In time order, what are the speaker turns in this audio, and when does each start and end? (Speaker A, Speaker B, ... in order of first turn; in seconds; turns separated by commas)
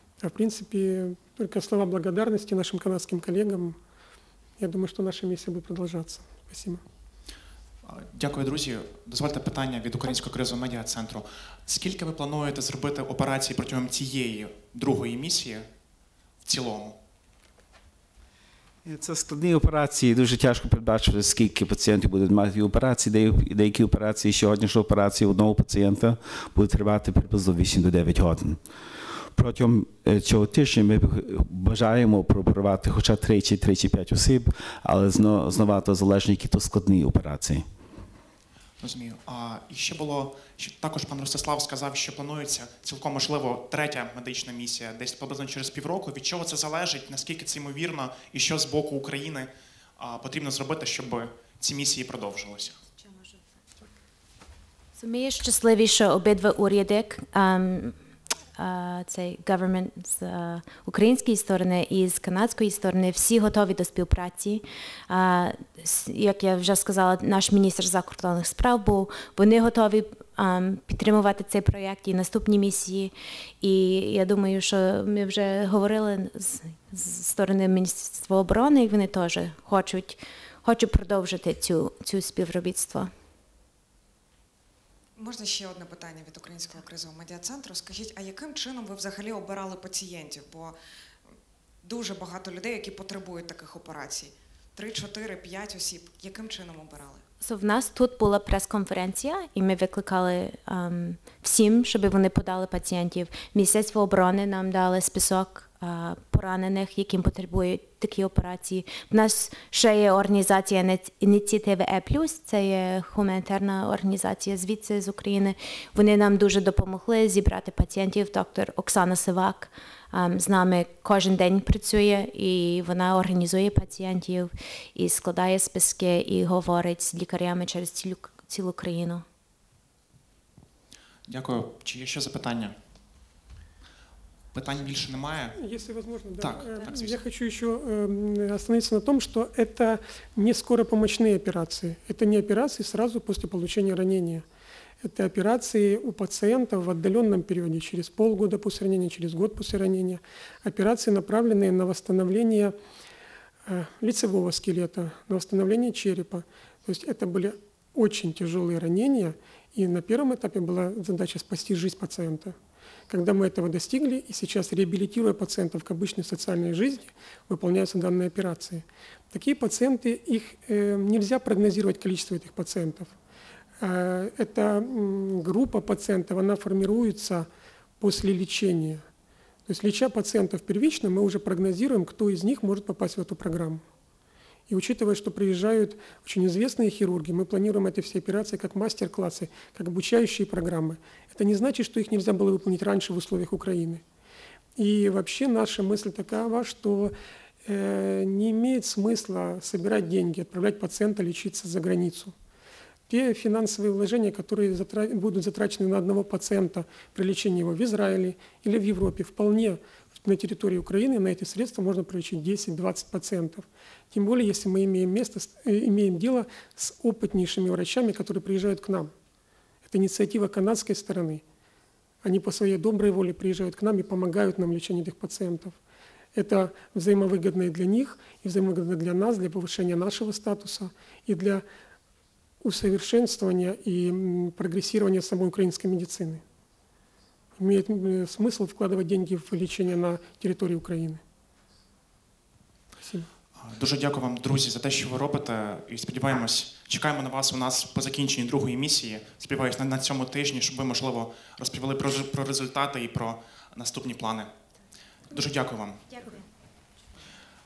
Speaker A: 0.2-3.8, Speaker A: 4.6-6.8, Speaker B: 7.8-15.7, Speaker B: 16.4-17.0, Speaker C: 18.8-28.6, Speaker C: 29.3-37.6, Speaker B: 38.8-52.8, Speaker D: 55.0-58.0, Speaker D: 58.5-83.1, Speaker E: 85.2-90.8, Speaker E: 91.8-97.2, Speaker D: 97.4-129.2, Speaker B: 131.3-132.8, Speaker B: 134.5-135.6, Speaker A: 135.6-144.4, Speaker B: 136.4-137.2, Speaker A: 145.0-152.7, Speaker A: 153.7-162.5, Speaker A: 163.1-173.1, Speaker A: 173.8-177.5, Speaker A: 178.0-179.0, Speaker A: 179.7-183.8, Speaker A: 184.7-194.0, Speaker A: 194.8-197.1, Speaker A: 197.6-202.3, Speaker A: 203.1-219.1, Speaker A: 219.8-221.4, Speaker A: 222.2-225.8, Speaker A: 226.3-231.6, Speaker A: 232.6-236.4, Speaker A: 237.6-241.2, Speaker A: 243.0-243.3, Speaker B: 243.6-254.5, Speaker B: 255.3-256.3